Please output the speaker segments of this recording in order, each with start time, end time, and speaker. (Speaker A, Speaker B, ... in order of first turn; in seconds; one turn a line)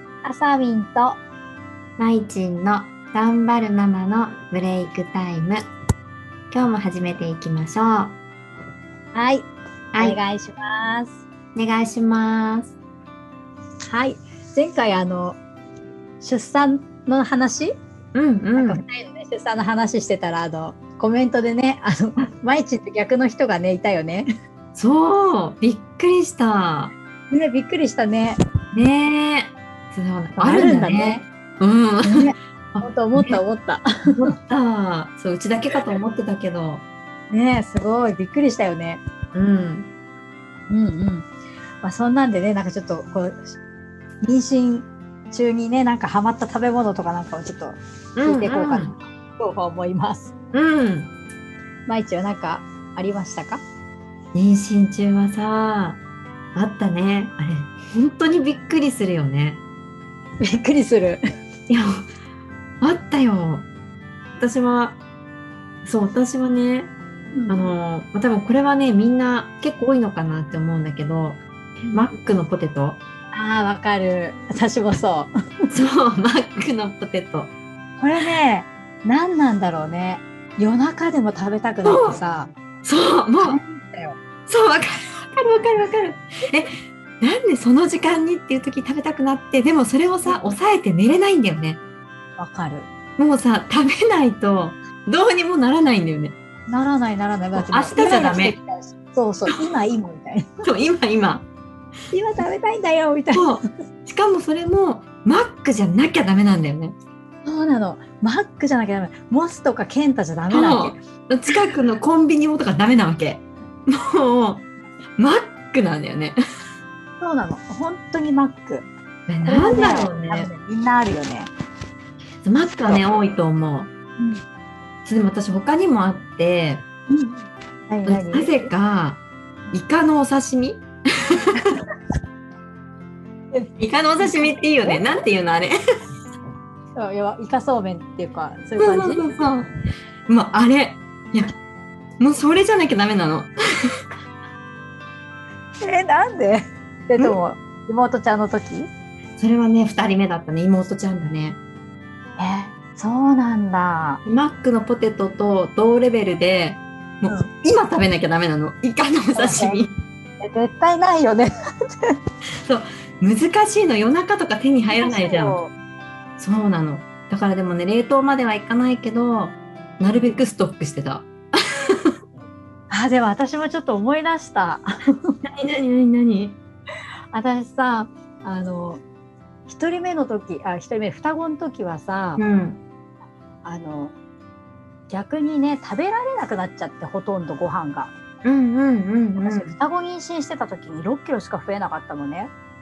Speaker A: 0.2-1.2
Speaker B: 2.0-5.6
Speaker B: 6.5-8.2
Speaker A: 9.1-11.2
Speaker B: 11.6-12.7
Speaker A: 13.9-15.4
Speaker A: 16.2-17.7
Speaker B: 18.1-18.8
Speaker A: 18.6-24.3
Speaker B: 24.8-26.9
Speaker A: 27.3-28.4
Speaker B: 28.7-33.4
Speaker A: 30.4-31.3
Speaker A: 32.0-33.8
Speaker B: 34.1-36.8
Speaker A: 37.3-39.0
Speaker B: 39.4-39.9
Speaker A: 40.7-41.3
Speaker A: 41.8-43.6
Speaker A: 44.2-50.3
Speaker B: 48.2-48.9
Speaker B: 50.5-51.1
Speaker A: 51.9-53.6
Speaker B: 54.3-56.0
Speaker B: 56.5-59.6
Speaker A: 60.4-61.2
Speaker B: 61.7-62.1
Speaker B: 62.8-63.7
Speaker B: 64.4-65.0
Speaker B: 65.8-66.9
Speaker A: 67.3-67.7
Speaker B: 67.5-71.4
Speaker B: 71.9-73.0
Speaker A: 73.3-75.3
Speaker B: 75.7-77.5
Speaker A: 78.0-82.5
Speaker B: 81.8-82.2
Speaker B: 82.8-83.6
Speaker A: 83.4-84.2
Speaker B: 84.5-91.8
Speaker A: 90.2-90.5
Speaker A: 92.4-92.9
Speaker B: 93.2-96.3
Speaker A: 96.7-100.5
Speaker B: 97.7-98.6
Speaker B: 100.6-101.5
Speaker A: 102.1-103.7
Speaker B: 103.3-107.0
Speaker A: 107.5-111.0
Speaker B: 110.5-114.7
Speaker B: 115.2-116.4
Speaker A: 117.2-118.9
Speaker B: 119.3-120.5
Speaker A: 119.4-121.5
Speaker B: 122.4-123.9
Speaker A: 124.2-124.4
Speaker B: 125.0-126.8
Speaker A: 127.1-128.7
Speaker B: 128.1-131.7
Speaker A: 133.5-135.1
Speaker B: 133.8-135.8
Speaker A: 137.0-139.3
Speaker B: 138.8-139.7
Speaker B: 140.3-141.6
Speaker B: 142.2-143.5
Speaker A: 145.8-148.9
Speaker B: 149.4-151.6
Speaker A: 152.4-154.2
Speaker B: 154.2-159.9
Speaker A: 157.3-157.8
Speaker A: 159.3-159.8
Speaker A: 160.4-161.5
Speaker B: 162.7-165.6
Speaker A: 164.9-165.7
Speaker B: 166.4-171.3
Speaker B: 171.9-172.1
Speaker A: 172.9-175.4
Speaker B: 175.4-176.6
Speaker A: 177.3-179.0
Speaker A: 179.7-182.4
Speaker B: 182.4-182.8
Speaker A: 183.6-184.1
Speaker A: 185.1-188.1
Speaker B: 188.4-189.7
Speaker A: 189.4-192.5